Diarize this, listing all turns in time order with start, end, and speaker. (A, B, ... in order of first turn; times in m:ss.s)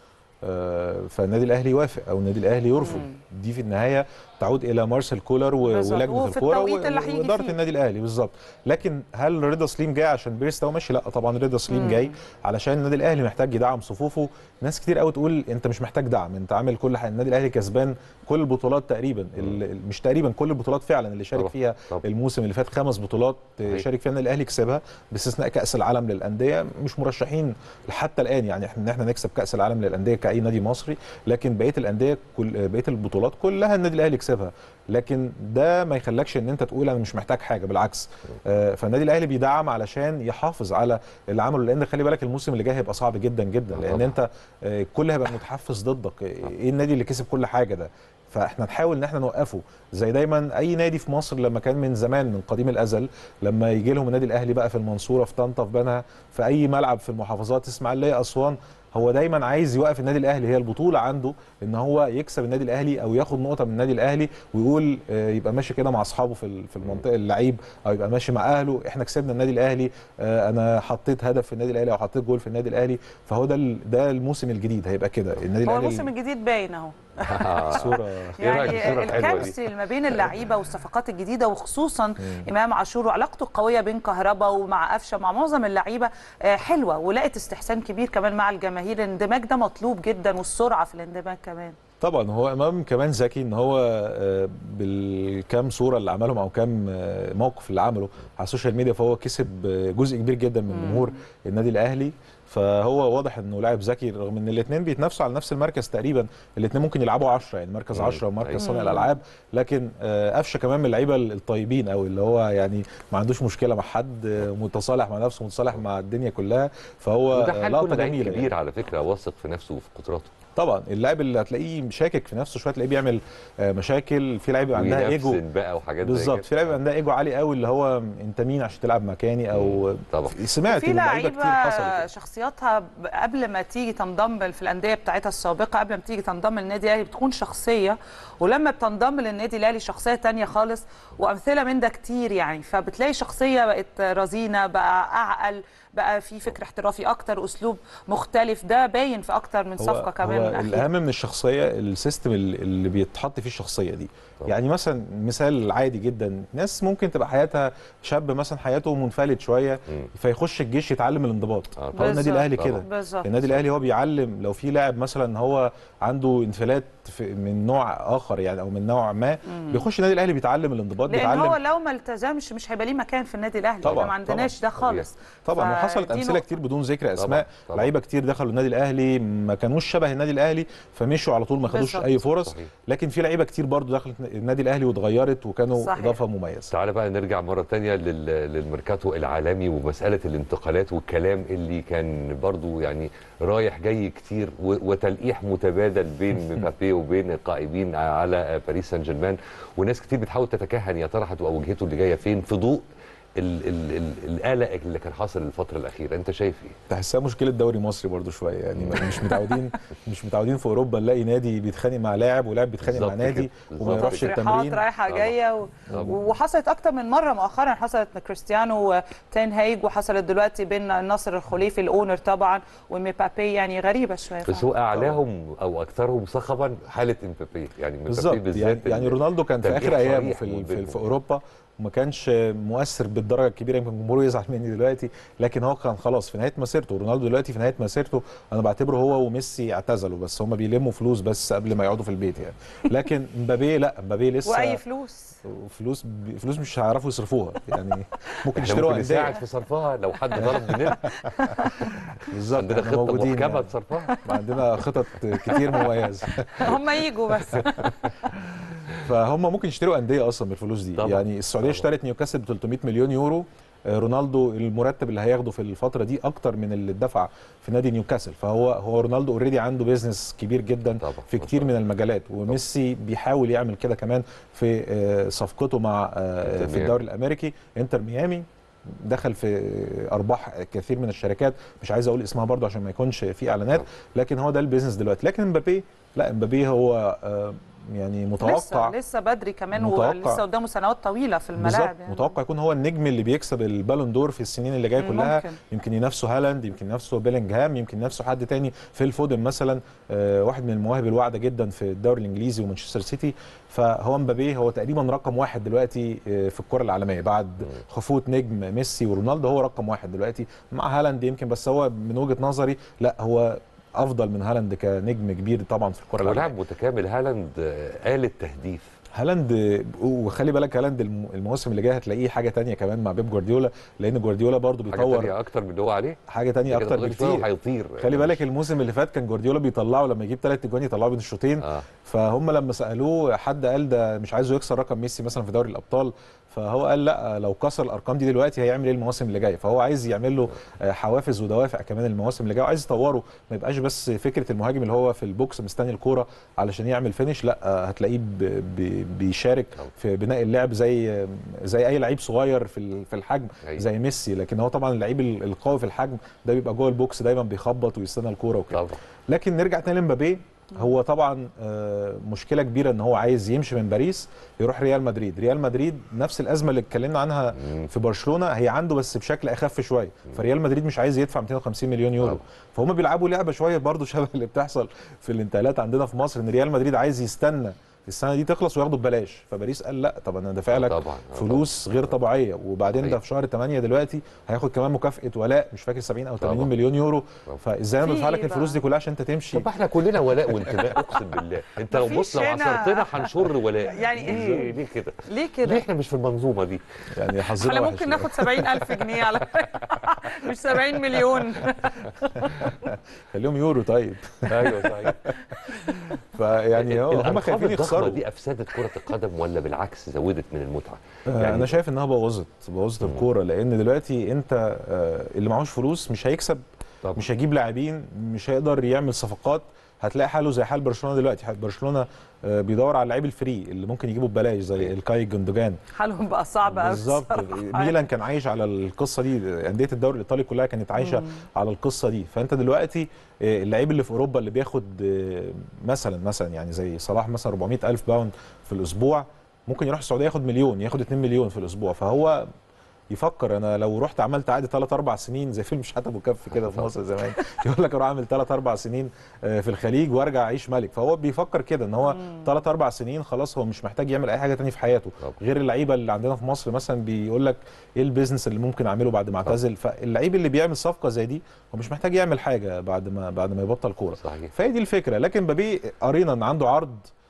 0:00.4-1:16.1 A
0:02.8-0:03.1 B
0:05.6-0:07.6 B
0:11.7-0:12.1 B
0:21.3-0:22.0 C
0:43.7-0:44.2 C
1:15.6-1:31.7 B
1:17.2-1:19.5 C
1:17.7-1:19.5 A
1:22.2-1:22.4 A
1:32.0-1:58.5 A
1:40.7-1:41.2 B
1:47.9-1:48.6 C
1:48.6-1:49.1 B
1:57.3-2:00.3 C
2:00.6-2:05.4 A
2:04.7-2:06.5 C
2:06.0-2:12.0 A
2:09.5-2:10.4 C
2:10.7-2:30.9 B
2:29.8-2:51.6 A
2:41.8-2:42.8 C
2:41.9-2:43.4 B
2:49.5-2:49.8 B
2:51.1-2:56.5 B
2:53.8-2:54.6 A
2:54.8-2:55.1 C
2:55.4-3:06.7 A
2:57.2-2:57.9 C
3:01.7-3:02.2 B
3:02.4-3:02.7 C
3:05.8-3:06.2 B
3:06.7-3:22.8 C
3:23.4-3:26.8 C
3:26.9-3:34.8 A
3:28.7-3:29.4 C
3:32.8-3:34.4 C
3:33.8-3:44.7 B
3:35.1-3:35.4 C
3:35.9-3:36.2 C
3:35.9-3:36.2 A
3:44.4-3:51.1 C
3:44.9-3:45.2 A
3:48.1-4:04.8 A
4:04.4-4:05.4 B
4:05.4-4:09.4 A
4:08.5-4:11.1 C
4:10.4-4:11.5 A
4:12.2-4:16.8 A
4:12.5-4:14.1 C
4:15.4-4:15.9 B
4:16.6-4:17.9 B
4:17.8-4:18.0 C
4:19.0-4:38.4 A
4:21.0-4:21.8 C
4:31.0-4:31.7 C
4:36.4-4:37.0 C
4:39.0-4:48.9 A
4:48.4-4:52.4 B
4:49.7-4:50.4 A
4:51.6-5:16.5 A
4:55.0-4:55.6 B
5:16.2-5:18.9 C
5:19.1-5:25.3 A
5:24.9-5:28.4 C
5:26.3-5:27.5 A
5:28.0-6:29.7 A
5:31.6-5:31.8 C
5:58.7-5:59.0 C
6:20.7-6:21.7 C
6:26.4-6:26.7 C
6:28.0-6:28.8 B
6:29.5-6:36.8 C
6:30.6-6:31.0 A
6:31.9-6:33.3 B
6:33.8-6:34.7 B
6:34.3-6:34.6 A
6:35.2-6:35.8 B
6:37.1-6:38.8 A
6:37.4-6:42.7 B
6:42.5-6:48.2 A
6:44.5-6:45.3 C
6:46.7-6:51.8 C
6:51.3-6:56.6 A
6:57.0-6:57.3 C
6:57.2-7:05.8 A
7:05.9-7:08.0 B
7:06.6-7:22.4 A
7:11.0-7:11.4 B
7:23.1-7:47.0 A
7:26.5-7:26.9 C
7:32.0-7:32.5 B
7:44.2-7:44.5 C